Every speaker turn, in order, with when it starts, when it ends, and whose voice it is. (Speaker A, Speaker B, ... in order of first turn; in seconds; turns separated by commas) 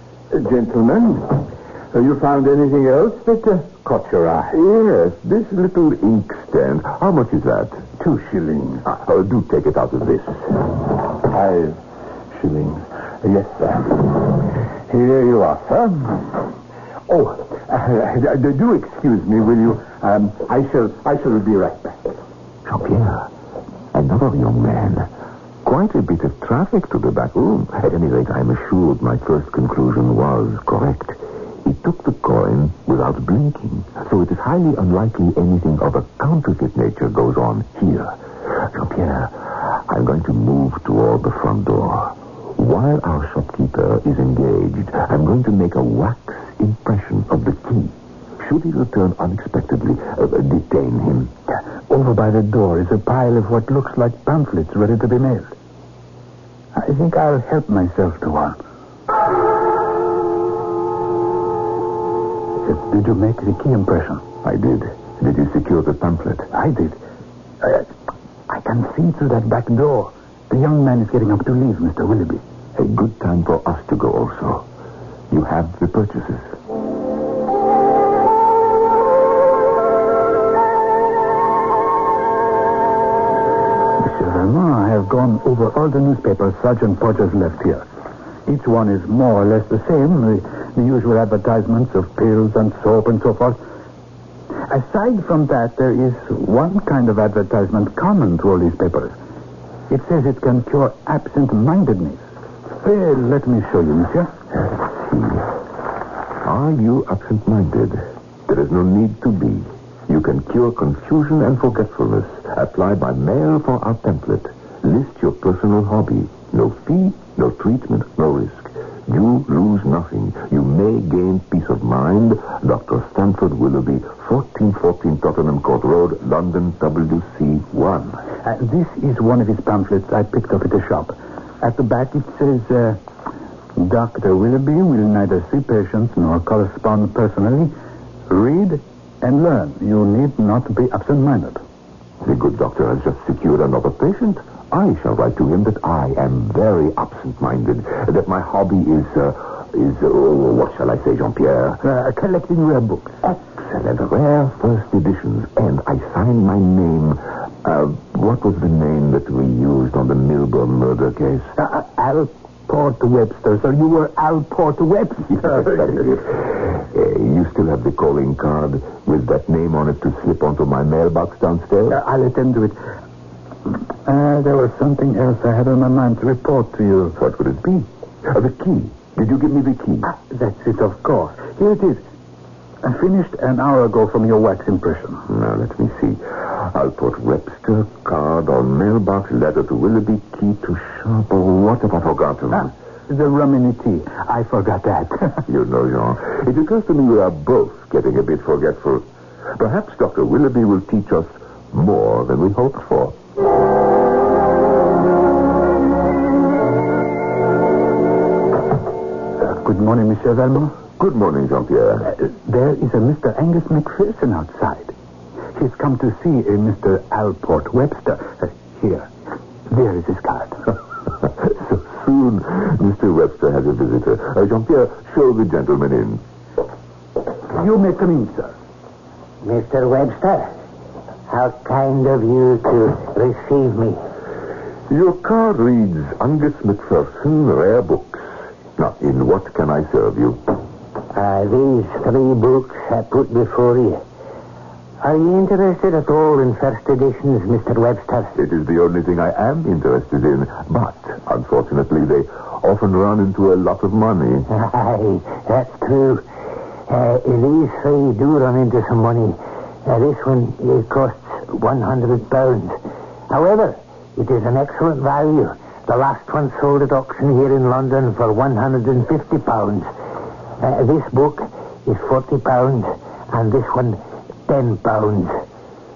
Speaker A: 0.3-4.6, Speaker B: 4.5-7.9, Speaker A: 8.0-8.9, Speaker B: 8.8-10.6, Speaker A: 11.2-11.8, Speaker A: 12.3-16.5, Speaker A: 17.1-22.0, Speaker B: 22.6-23.3, Speaker B: 23.9-25.1, Speaker B: 25.6-51.3, Speaker C: 51.5-55.5, Speaker C: 56.8-58.6, Speaker C: 62.6-64.2, Speaker B: 64.4-66.5, Speaker C: 66.5-67.0, Speaker C: 67.6-67.9, Speaker C: 68.5-72.4, Speaker B: 72.8-74.7, Speaker B: 75.3-76.5, Speaker C: 84.0-87.9, Speaker C: 88.5-93.6, Speaker C: 94.7-99.2, Speaker C: 99.9-102.2, Speaker C: 102.8-104.3, Speaker B: 105.0-105.5, Speaker B: 106.4-128.2, Speaker C: 128.4-133.0, Speaker C: 133.8-137.8, Speaker C: 138.3-141.6, Speaker B: 142.2-151.8, Speaker C: 151.8-153.2, Speaker B: 153.2-161.5, Speaker C: 161.6-166.2, Speaker B: 165.4-172.0, Speaker C: 171.9-172.8, Speaker C: 174.1-177.2, Speaker B: 177.2-180.1, Speaker C: 180.0-182.0, Speaker C: 182.8-185.3, Speaker B: 185.3-192.7, Speaker C: 193.1-195.4, Speaker B: 195.5-199.1, Speaker B: 199.6-203.2, Speaker C: 209.4-210.8, Speaker B: 211.0-212.1, Speaker C: 212.0-214.9, Speaker C: 215.6-219.1, Speaker C: 219.7-220.7, Speaker B: 221.4-226.2, Speaker C: 227.5-228.6, Speaker D: 229.4-230.5, Speaker D: 231.3-234.0, Speaker B: 234.9-240.4, Speaker D: 241.1-244.0, Speaker D: 245.0-248.3, Speaker B: 248.3-254.5, Speaker D: 254.5-256.2, Speaker D: 256.9-262.8, Speaker D: 263.3-269.9, Speaker D: 270.6-275.4